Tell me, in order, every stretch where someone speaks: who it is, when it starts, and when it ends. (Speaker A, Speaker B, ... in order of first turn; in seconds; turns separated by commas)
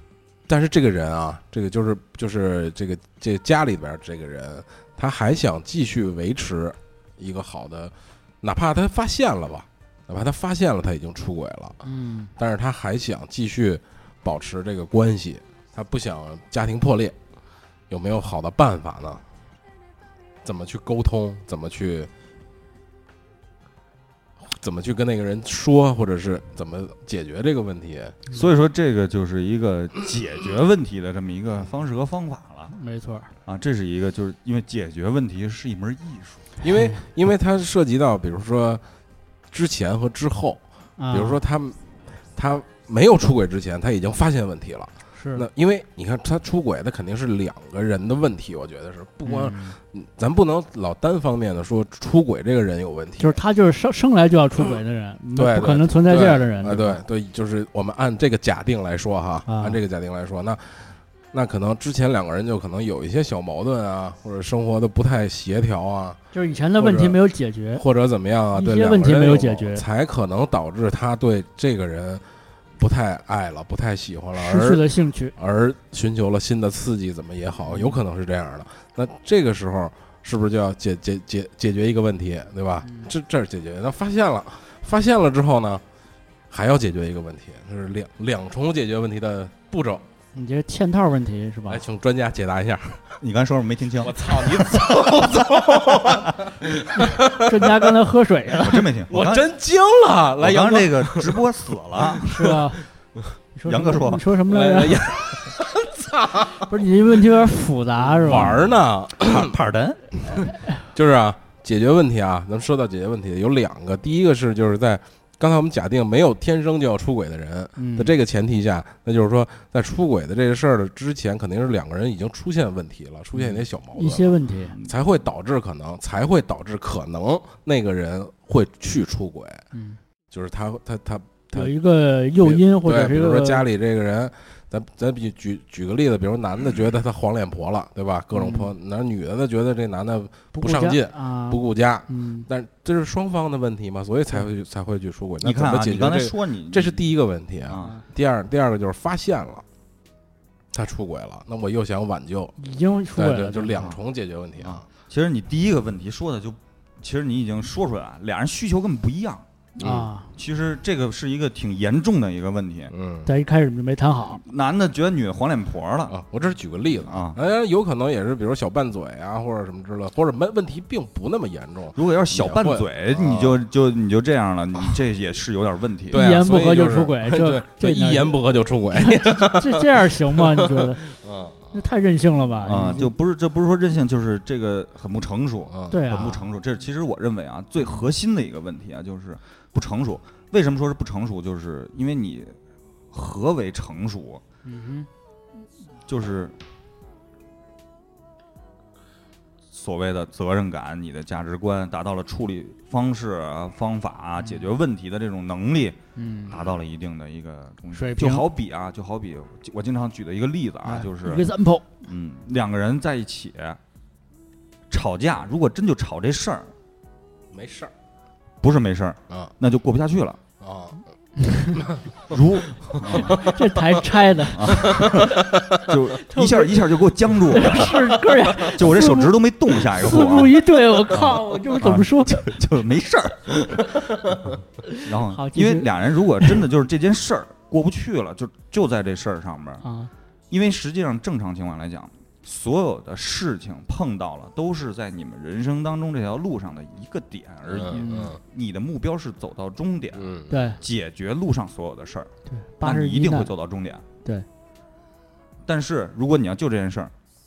Speaker A: 0.5-11.8, Speaker B: 11.8-12.3, Speaker A: 12.4-17.2, Speaker A: 17.9-19.2, Speaker A: 20.4-22.1, Speaker A: 24.4-28.2, Speaker C: 28.3-32.8, Speaker B: 32.7-33.3, Speaker C: 33.5-36.5, Speaker A: 36.6-38.8, Speaker B: 36.7-37.0, Speaker A: 39.5-53.4, Speaker B: 41.0-41.4, Speaker B: 45.1-45.5, Speaker B: 49.2-49.8, Speaker B: 53.2-57.0, Speaker A: 55.4-66.2, Speaker B: 59.5-59.8, Speaker B: 66.3-67.8, Speaker A: 66.8-67.2, Speaker A: 67.8-72.3, Speaker B: 68.5-69.9, Speaker A: 72.8-85.8, Speaker B: 74.4-75.3, Speaker B: 77.7-78.0, Speaker B: 82.8-83.1, Speaker A: 86.5-90.1, Speaker B: 90.3-91.8, Speaker A: 91.7-93.2, Speaker C: 93.2-95.0, Speaker A: 94.0-97.9, Speaker B: 97.0-98.9, Speaker C: 98.6-99.5, Speaker A: 99.1-101.4, Speaker C: 100.4-102.2, Speaker A: 102.0-102.6, Speaker B: 102.2-102.8, Speaker B: 103.5-105.1, Speaker C: 103.7-104.2, Speaker A: 104.5-106.7, Speaker B: 106.6-108.6, Speaker A: 108.0-109.5, Speaker C: 108.3-110.3, Speaker A: 110.9-129.6, Speaker B: 117.8-118.2, Speaker B: 123.4-124.8, Speaker B: 129.7-130.0, Speaker A: 130.3-131.7, Speaker B: 131.5-133.7, Speaker A: 132.4-149.7, Speaker B: 138.3-138.7, Speaker B: 140.5-142.5, Speaker C: 145.4-147.0, Speaker C: 147.7-147.9, Speaker A: 150.7-152.6, Speaker B: 152.6-153.9, Speaker A: 153.2-154.9, Speaker C: 154.6-162.9, Speaker A: 159.8-160.1, Speaker B: 159.8-160.3, Speaker A: 162.9-163.3, Speaker B: 163.3-164.4, Speaker C: 164.4-166.2, Speaker A: 166.1-173.6, Speaker C: 167.0-167.4, Speaker C: 172.0-176.2, Speaker A: 176.1-181.8, Speaker B: 176.1-178.3, Speaker B: 178.9-181.0, Speaker B: 181.7-183.1, Speaker C: 182.7-192.6, Speaker A: 185.7-186.0, Speaker B: 185.9-186.4, Speaker C: 193.1-194.4, Speaker B: 194.7-195.1, Speaker C: 196.1-196.6, Speaker C: 199.7-211.5, Speaker B: 204.4-204.7, Speaker B: 206.2-206.6, Speaker B: 207.9-208.4, Speaker B: 210.8-211.9, Speaker C: 212.0-213.8, Speaker C: 214.9-216.7, Speaker A: 217.5-217.9, Speaker C: 218.6-220.4, Speaker A: 220.6-221.0, Speaker B: 221.4-221.8, Speaker A: 221.8-223.6, Speaker C: 222.3-223.4, Speaker B: 223.3-225.3, Speaker C: 224.5-233.9, Speaker A: 224.7-225.9, Speaker B: 226.2-226.8, Speaker B: 227.5-229.3, Speaker B: 229.9-232.4, Speaker B: 235.0-235.9, Speaker C: 235.0-239.8, Speaker B: 239.8-240.1, Speaker C: 240.5-254.0, Speaker A: 247.7-248.4, Speaker B: 247.9-248.3, Speaker A: 250.1-250.6, Speaker B: 250.5-250.8, Speaker B: 252.5-253.5, Speaker C: 255.7-257.1